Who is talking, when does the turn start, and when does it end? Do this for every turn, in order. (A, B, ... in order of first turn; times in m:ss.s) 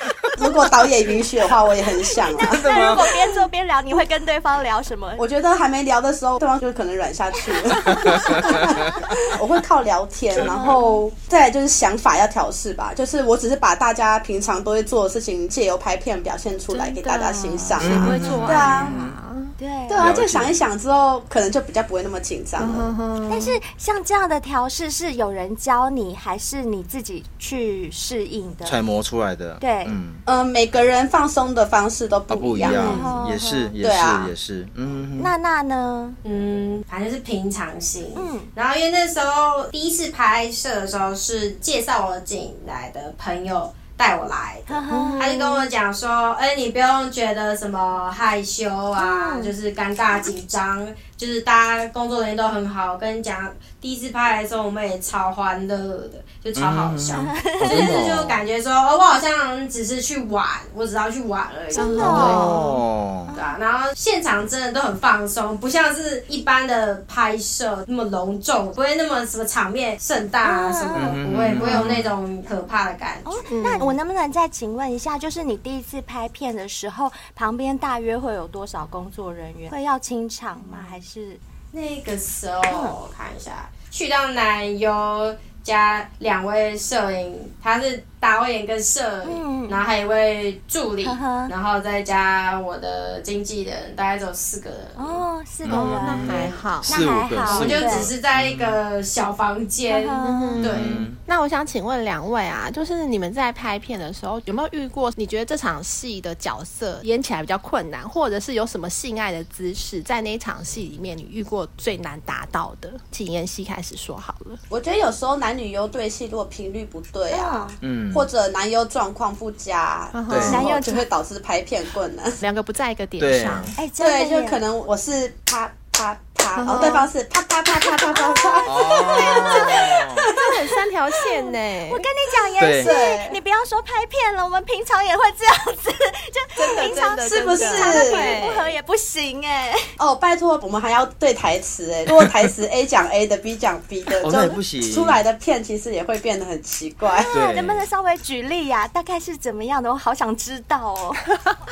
0:00.4-0:03.1 A
0:02.3-0:05.3 B
0:02.5-0:03.1 C
0:05.2-0:18.9 A
0:07.9-0:09.0 C
0:10.4-0:11.0 B
0:16.7-0:19.5 D
0:17.8-0:19.2 C
0:18.1-0:18.8 B
0:19.6-0:20.0 B
0:19.9-0:22.9 A
0:20.0-0:20.6 C
0:22.6-0:23.6 D
0:23.3-0:28.8 B
0:28.6-0:30.2 C
0:29.6-0:30.0 B
0:30.3-0:33.0 A
0:32.3-0:35.3 C
0:32.6-0:33.7 B
0:33.8-0:34.3 A
0:35.2-0:36.2 B
0:36.2-1:02.5 E
0:38.2-0:38.5 B
0:44.7-0:45.7 B
0:44.9-0:45.2 D
0:49.0-0:49.5 B
0:56.6-0:58.4 C
0:57.2-0:57.9 B
1:01.7-1:02.6 D
1:01.8-1:02.6 B
1:02.1-1:03.3 C
1:03.3-1:03.6 B
1:03.3-1:13.8 E
1:10.4-1:11.9 B
1:10.9-1:12.1 C
1:13.3-1:21.4 B
1:13.5-1:13.9 D
1:20.6-1:21.0 E
1:21.7-1:35.2 E
1:22.7-1:23.0 B
1:29.2-1:29.8 B
1:31.0-1:31.5 B
1:35.0-1:38.1 B
1:35.6-1:38.8 C
1:35.7-1:37.0 D
1:37.4-1:41.0 E
1:39.9-1:40.6 B
1:40.2-1:54.6 D
1:40.6-1:41.2 C
1:54.7-2:02.4 A
1:57.3-1:57.8 B
1:57.8-1:58.3 C
2:00.1-2:00.9 D
2:00.3-2:00.7 C
2:00.4-2:01.0 B
2:02.4-2:03.8 D
2:03.2-2:03.7 C
2:03.8-2:04.6 B
2:04.0-2:10.8 A
2:06.6-2:07.1 D
2:07.7-2:09.9 B
2:08.7-2:10.3 C
2:09.3-2:12.1 D
2:11.9-2:20.0 B
2:12.6-2:13.0 C
2:12.8-2:13.4 A
2:16.6-2:18.7 D
2:17.2-2:18.3 E
2:17.7-2:18.4 A
2:20.0-2:27.3 A
2:22.1-2:22.5 C
2:24.2-2:25.2 C
2:27.0-2:31.3 B
2:27.3-2:27.9 C